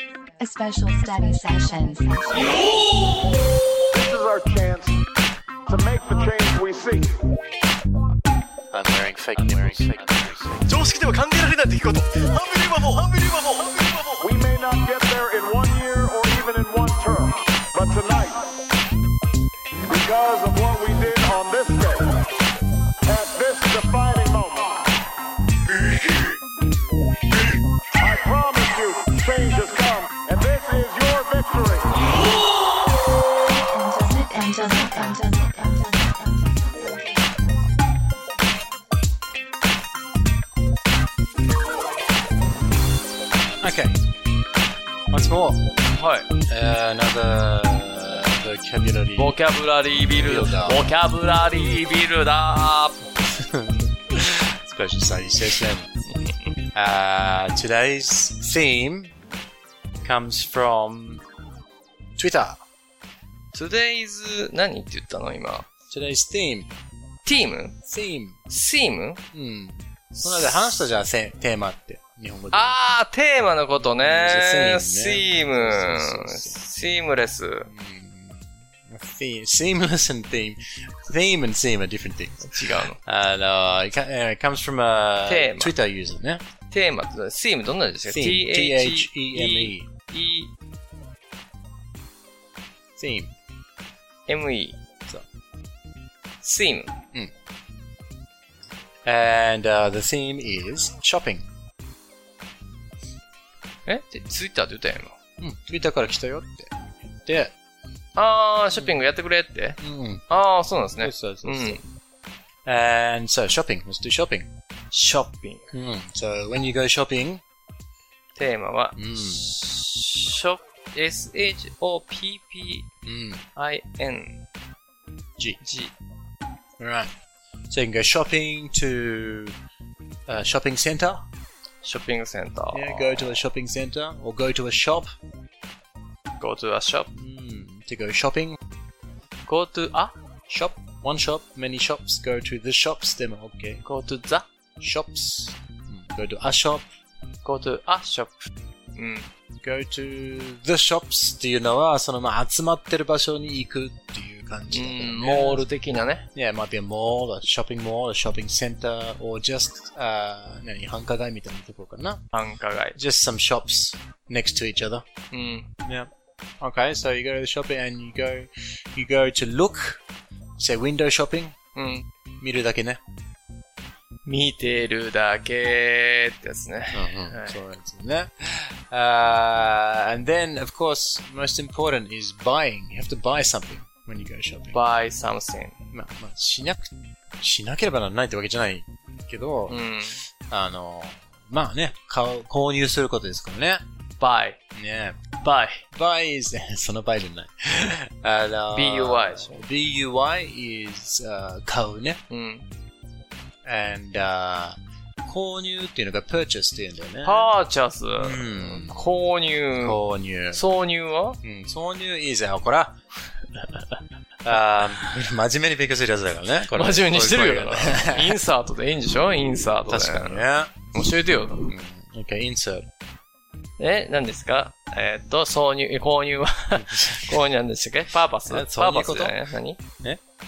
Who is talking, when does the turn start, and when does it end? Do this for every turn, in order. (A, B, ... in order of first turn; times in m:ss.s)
0:00.4-0:02.7 A
0:03.9-0:05.0 B
0:05.7-0:07.2 B
0:08.7-0:10.6 C
0:10.7-0:14.2 D
0:14.2-0:18.5 B
0:19.9-0:22.2 B
0:23.0-0:24.9 B
0:28.0-0:31.9 B
0:33.5-0:37.7 A
0:43.6-0:44.0 C
0:45.1-0:45.6 C
0:46.0-0:46.3 E
0:46.5-0:51.0 C
0:49.2-0:53.0 E
0:53.3-0:55.9 C
0:56.7-0:59.1 C
1:00.0-1:01.2 C
1:02.2-1:02.6 C
1:03.5-1:05.6 E
1:05.9-1:06.7 C
1:07.2-1:07.8 E
1:07.8-1:08.4 C
1:08.5-1:09.2 E
1:09.3-1:12.8 C
1:10.2-1:10.9 E
1:12.5-1:17.7 E
1:14.0-1:16.6 C
1:17.6-1:26.4 C
1:22.4-1:23.0 E
1:25.2-1:25.7 E
1:26.7-1:30.5 E
1:28.0-1:29.9 C
1:33.0-1:33.3 C
1:34.3-1:34.8 E
1:36.4-1:37.0 E
1:39.0-1:41.5 C
1:43.8-1:45.1 E
1:45.4-1:46.7 C
1:47.2-1:47.5 C
1:48.2-1:51.8 E
1:48.7-1:49.1 C
1:49.8-1:50.2 C
1:51.0-1:51.8 C
1:52.6-1:54.5 C
1:54.9-1:55.7 E
1:55.7-1:57.4 C
1:58.3-2:02.9 E
1:59.0-1:59.5 C
2:03.0-2:03.4 C
2:03.5-2:04.4 E
2:05.6-2:05.9 E
2:06.8-2:07.1 C
2:07.7-2:09.6 C
2:10.3-2:11.2 C
2:11.8-2:13.4 E
2:12.7-2:15.1 C
2:16.4-2:17.1 E
2:17.1-2:18.6 C
2:19.4-2:20.1 E
2:20.5-2:23.8 C
2:23.8-2:24.4 E
2:24.8-2:26.8 C
2:27.4-2:29.3 E
2:29.6-2:35.7 C
2:34.7-2:36.3 E
2:36.3-2:42.2 C
2:42.3-2:43.0 E
2:43.0-2:45.0 C
2:45.3-2:45.7 E
2:46.6-2:50.0 C
2:50.6-2:51.5 C
2:51.7-2:52.0 E
2:52.4-2:53.0 C
2:54.2-2:57.6 E
2:56.9-3:04.8 C
3:04.7-3:05.8 E
3:05.9-3:09.9 C
3:09.7-3:10.2 E
3:10.5-3:13.8 C
3:14.2-3:14.6 E
3:14.7-3:15.1 C
3:15.4-3:15.8 E
3:15.9-3:22.2 C
3:18.7-3:19.6 E
3:22.3-3:22.7 E
3:23.6-3:27.5 C
3:27.2-3:30.0 E
3:28.2-3:29.0 C
3:29.8-3:30.6 C
3:30.5-3:31.4 E
3:31.4-3:33.0 C
3:34.4-3:38.4 C
3:36.7-3:41.7 E
3:39.8-3:40.9 C
3:41.6-3:42.9 C
3:43.8-3:49.8 E
3:46.7-3:47.4 C
3:48.4-3:49.4 C